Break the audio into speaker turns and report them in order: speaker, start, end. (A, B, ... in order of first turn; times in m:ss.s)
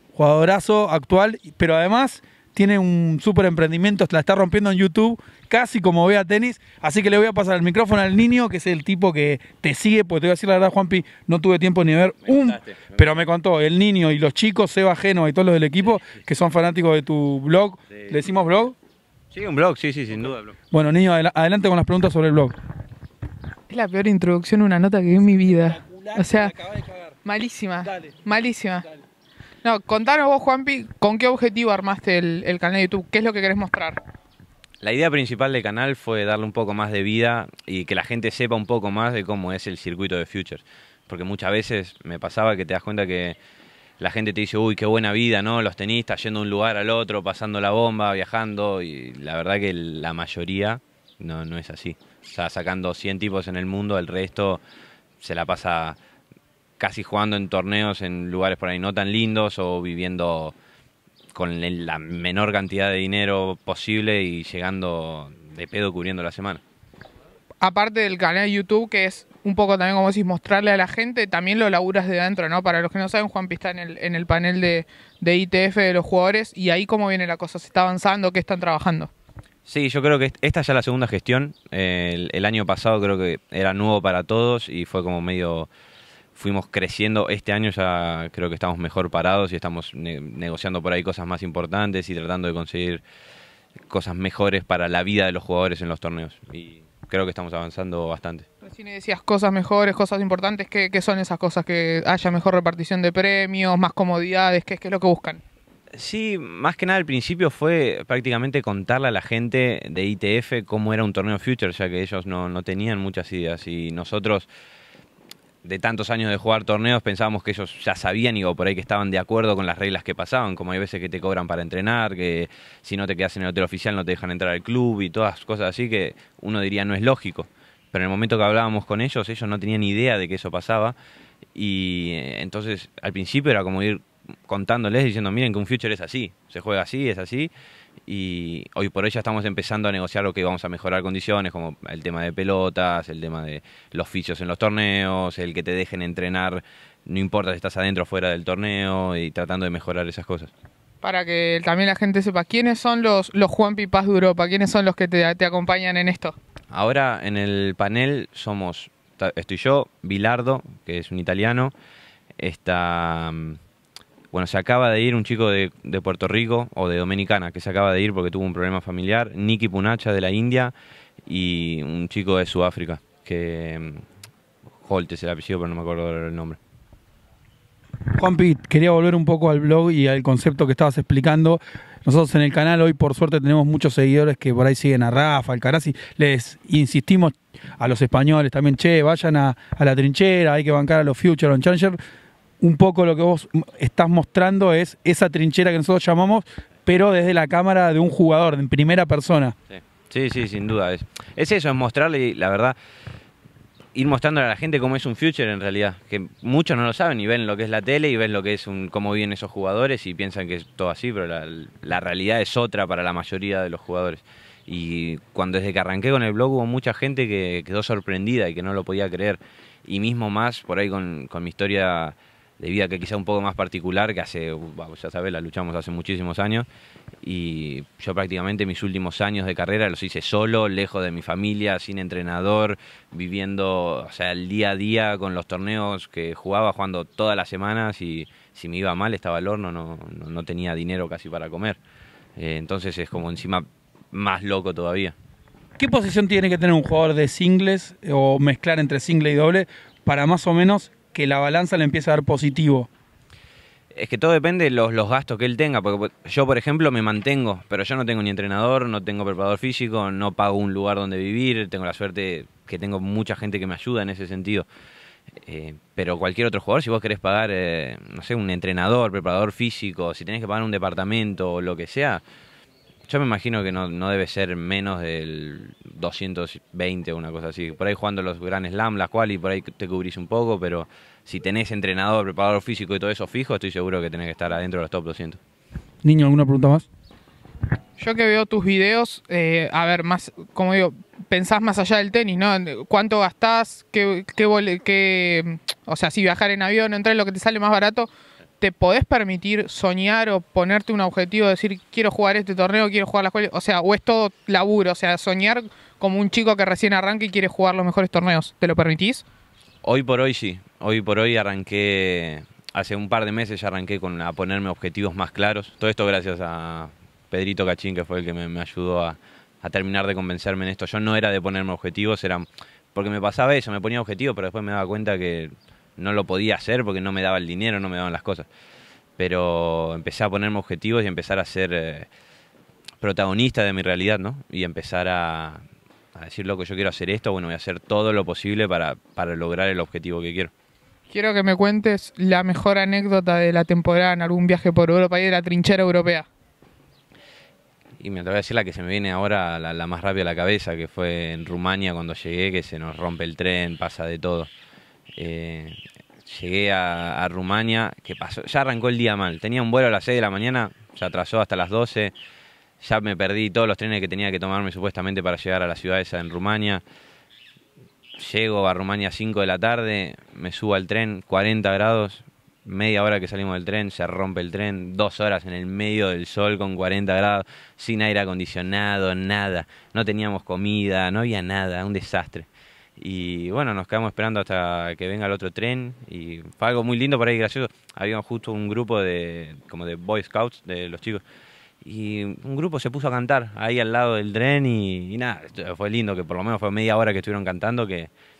0:00.1-0:18.8 A
0:12.2-0:13.0 B
0:19.3-0:20.6 B
0:20.7-0:22.5 A
0:23.7-0:26.5 C
0:25.5-0:27.1 A
0:27.2-0:28.9 C
0:27.9-0:28.2 A
0:29.6-0:34.0 C
0:34.8-0:43.4 B
0:44.0-0:54.6 B
0:55.2-0:56.0 B
0:56.8-1:00.6 B
1:01.3-1:06.6 B
1:07.6-1:19.1 C
1:19.7-1:25.7 B
1:26.3-1:33.0 B
1:33.9-1:38.4 B
1:38.6-1:45.4 C
1:46.0-1:54.5 B
1:55.6-2:11.0 B
2:11.6-2:17.5 B
2:18.1-2:30.5 B
2:31.0-2:36.4 C
2:36.7-2:41.7 B
2:42.4-2:43.6 B
2:44.3-2:50.7 B
2:51.3-2:54.0 B
2:54.8-2:56.6 B
2:58.2-3:12.0 A
3:12.6-3:19.5 A
3:19.7-3:22.8 B
3:23.9-3:46.7 B
3:47.2-4:01.8 B
4:02.4-4:05.1 B
4:05.8-4:12.9 A
4:13.9-4:24.7 B
4:25.4-4:32.2 B
4:33.1-4:45.4 B
4:46.0-4:46.9 A
4:48.0-4:58.1 C
4:58.6-5:09.2 C
5:09.8-5:28.5 B
5:29.2-5:32.1 B
5:33.0-5:35.6 B
5:36.1-5:40.5 B
5:41.1-5:46.2 C
5:48.0-5:54.5 B
5:55.2-6:02.1 B
6:02.8-6:06.8 B
6:08.2-6:22.5 B
6:23.0-6:31.2 B
6:31.8-6:38.1 B